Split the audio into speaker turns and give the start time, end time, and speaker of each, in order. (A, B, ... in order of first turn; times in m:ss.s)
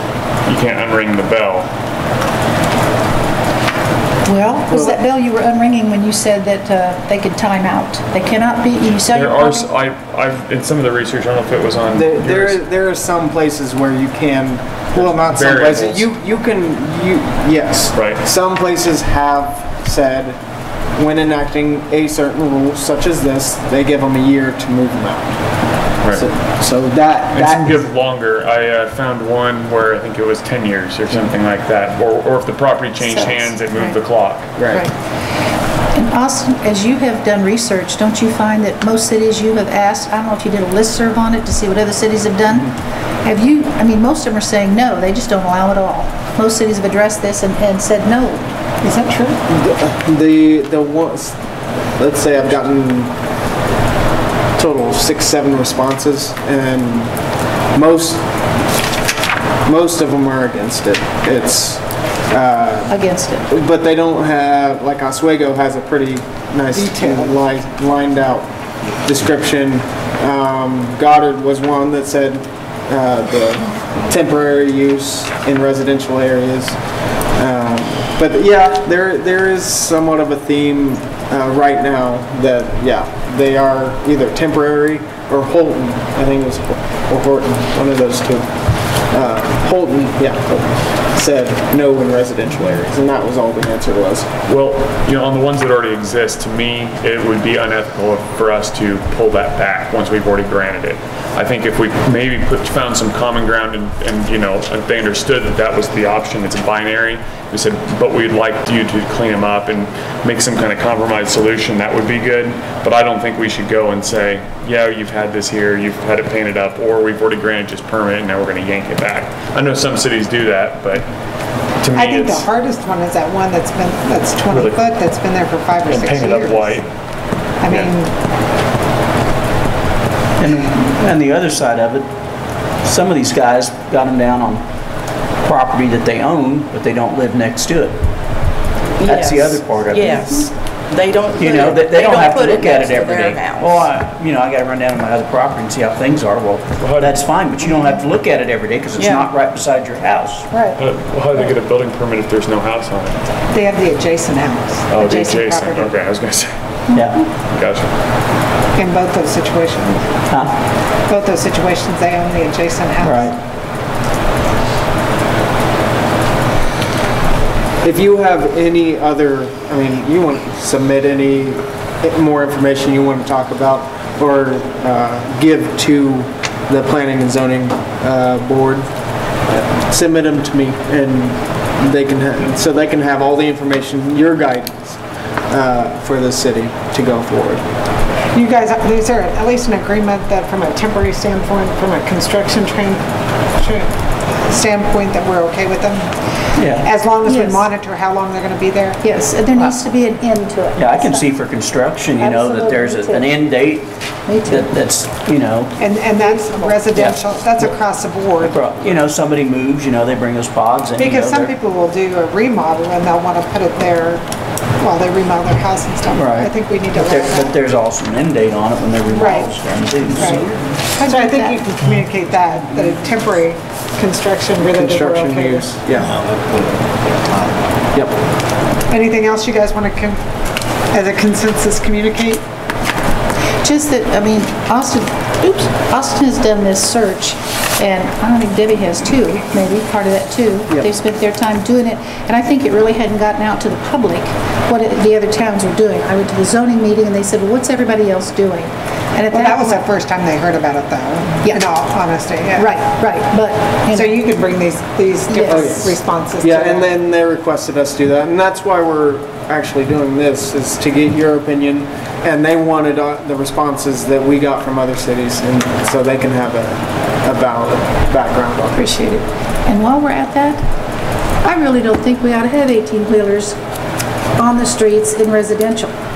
0:00.5-0:01.7 A
0:04.3-0:09.7 B
0:04.7-0:05.0 C
0:09.1-0:12.6 A
0:11.9-0:20.4 C
0:15.0-0:16.1 A
0:17.9-0:18.2 A
0:21.0-0:25.4 C
0:26.1-0:27.8 C
0:27.3-0:34.5 A
0:33.0-0:33.6 B
0:34.6-0:34.9 C
0:36.0-0:48.4 B
0:48.8-0:49.4 D
0:49.5-0:51.4 C
0:52.0-0:53.1 C
0:54.6-0:57.1 C
0:57.7-0:58.2 C
0:59.7-1:03.0 C
1:02.9-1:03.5 B
1:03.5-1:08.5 C
1:06.8-1:07.3 D
1:09.0-1:16.8 C
1:17.4-1:28.5 C
1:29.1-1:34.3 C
1:34.5-2:01.1 A
2:01.8-2:02.5 A
2:01.9-2:06.8 D
2:04.5-2:04.8 A
2:05.9-2:06.9 A
2:07.6-2:08.1 D
2:07.6-2:07.9 A
2:10.4-2:12.1 E
2:12.8-2:14.7 E
2:15.4-2:18.0 E
2:19.0-2:23.8 F
2:19.0-2:20.5 E
2:21.4-2:30.5 E
2:26.8-2:27.2 A
2:29.0-2:29.3 F
2:30.5-2:30.8 D
2:30.8-2:33.2 A
2:33.5-2:35.9 D
2:34.9-2:36.5 A
2:36.9-2:37.2 B
2:36.9-2:37.2 E
2:37.5-2:37.9 A
2:38.8-2:40.1 D
2:41.1-2:43.3 D
2:43.0-2:43.4 E
2:47.8-2:58.9 C
2:59.9-3:07.6 C
3:08.3-3:13.1 D
3:13.6-3:13.9 D
3:14.4-3:16.1 D
3:16.6-3:16.9 E
3:16.8-3:19.0 D
3:17.2-3:17.6 B
3:19.0-3:21.3 B
3:20.8-3:23.9 E
3:22.2-3:23.4 B
3:24.3-3:24.7 B
3:24.4-3:25.7 E
3:25.8-3:28.6 D
3:26.1-3:26.9 B
3:26.9-3:27.7 E
3:28.4-3:31.5 E
3:31.0-3:34.2 D
3:34.8-3:37.5 D
3:36.1-3:40.6 E
3:39.1-3:39.5 D
3:40.1-3:40.5 D
3:41.0-3:41.6 B
3:41.0-3:45.7 D
3:44.6-3:46.2 C
3:47.9-3:48.2 C
3:48.9-3:50.2 D
3:50.9-3:52.4 D
3:53.6-4:09.8 B
4:09.3-4:12.8 D
4:12.5-4:14.1 B
4:13.9-4:16.9 D
4:15.3-4:16.0 B
4:15.5-4:28.8 C
4:28.8-4:30.6 B
4:31.4-4:33.6 B
4:34.4-4:35.9 B